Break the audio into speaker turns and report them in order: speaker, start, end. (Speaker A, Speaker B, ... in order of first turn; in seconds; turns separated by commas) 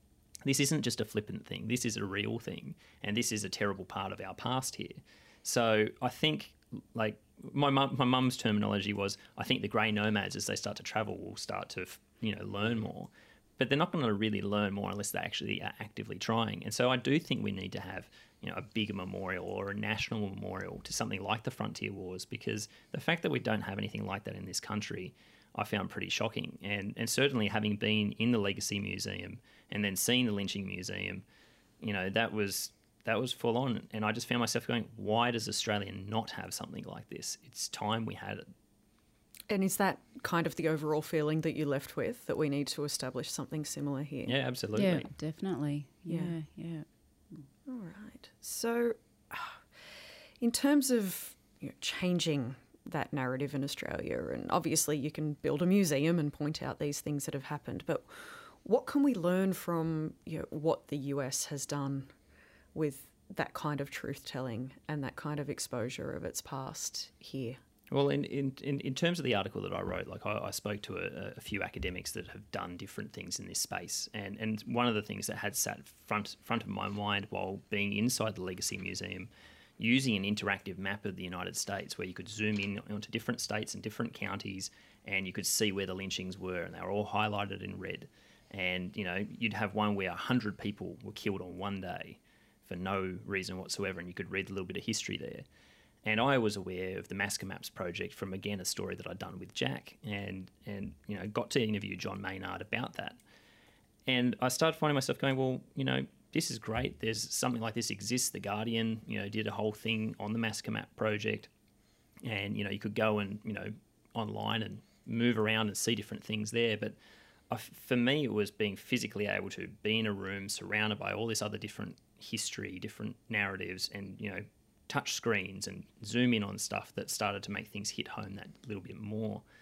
Speaker A: 0.5-31.2, Speaker A: 31.8-38.5, Speaker B: 39.5-44.3, Speaker A: 44.3-45.1, Speaker C: 44.8-46.9, Speaker B: 46.1-46.4, Speaker B: 47.7-49.6, Speaker B: 50.4-62.1, Speaker B: 62.7-67.6, Speaker A: 67.9-95.5, Speaker A: 96.0-103.2, Speaker A: 104.1-111.5, Speaker A: 112.2-117.0, Speaker A: 117.5-129.4